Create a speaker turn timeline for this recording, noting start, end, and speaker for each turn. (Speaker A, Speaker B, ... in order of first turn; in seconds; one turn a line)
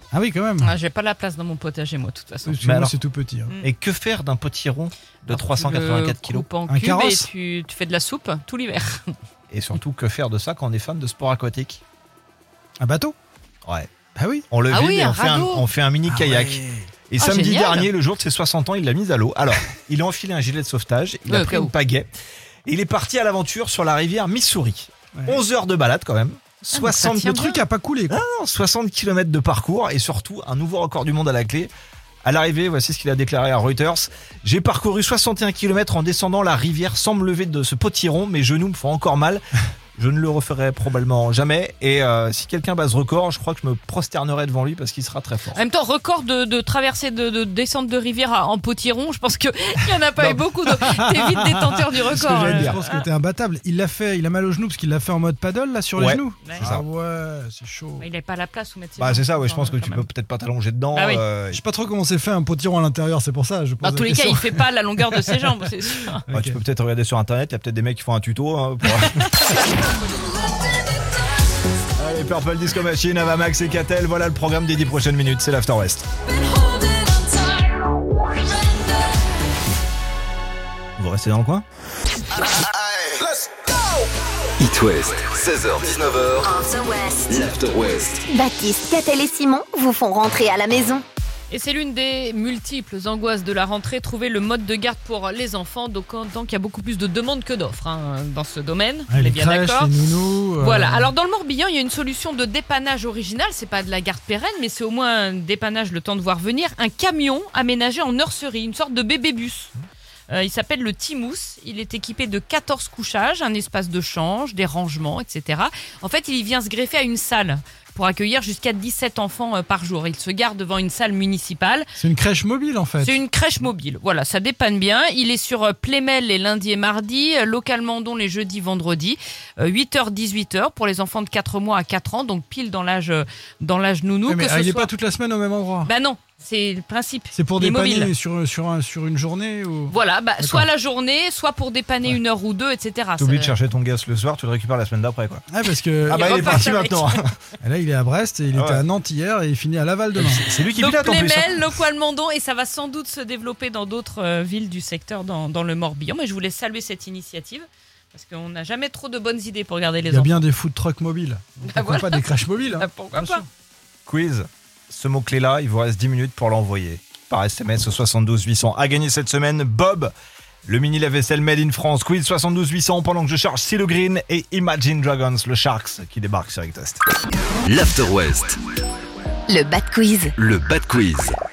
Speaker A: 0.1-0.7
Speaker B: 0.6-2.6
Speaker A: 2.5-3.5
Speaker C: 2.6-2.9
Speaker C: 3.6-6.5
Speaker B: 5.3-9.1
Speaker A: 6.7-7.3
Speaker C: 9.5-11.8
Speaker A: 12.8-13.1
Speaker A: 14.2-14.5
Speaker C: 14.5-22.1
Speaker B: 14.7-15.7
Speaker A: 16.1-16.9
Speaker B: 17.2-17.9
Speaker B: 21.3-21.7
Speaker C: 22.6-27.5
Speaker A: 25.2-25.4
Speaker B: 26.7-27.6
Speaker A: 27.3-28.2
Speaker C: 28.1-31.7
Speaker C: 32.2-39.4
Speaker C: 40.0-45.6
Speaker B: 45.5-53.0
Speaker A: 50.2-58.1
Speaker C: 52.2-52.8
Speaker C: 56.0-56.8
Speaker B: 58.0-60.1
Speaker C: 59.0-61.6
Speaker B: 60.9-61.2
Speaker A: 61.5-65.5
Speaker B: 63.8-66.2
Speaker A: 66.2-66.6
Speaker C: 66.3-69.4
Speaker C: 72.0-76.1
Speaker C: 81.0-81.6
Speaker D: 84.6-86.5
Speaker E: 86.4-87.3
Speaker D: 87.2-88.2
Speaker E: 88.3-91.0
Speaker B: 91.5-100.0
Speaker A: 99.1-101.1
Speaker B: 100.6-109.7
Speaker B: 110.3-121.9
Speaker A: 122.0-123.2
Speaker B: 123.0-134.9
Speaker A: 134.3-135.9
Speaker B: 135.8-138.1
Speaker A: 137.3-140.7
Speaker B: 139.9-143.5
Speaker C: 143.2-145.4
Speaker A: 145.5-146.6
Speaker B: 146.1-147.1
Speaker C: 146.1-147.2
Speaker A: 147.6-150.4
Speaker C: 148.5-148.8
Speaker C: 150.2-151.8
Speaker B: 150.7-160.4
Speaker A: 160.1-163.4
Speaker B: 161.6-163.4
Speaker C: 164.1-170.1
Speaker C: 170.7-177.0
Speaker D: 177.6-178.6
Speaker E: 179.5-180.3
Speaker D: 180.4-181.4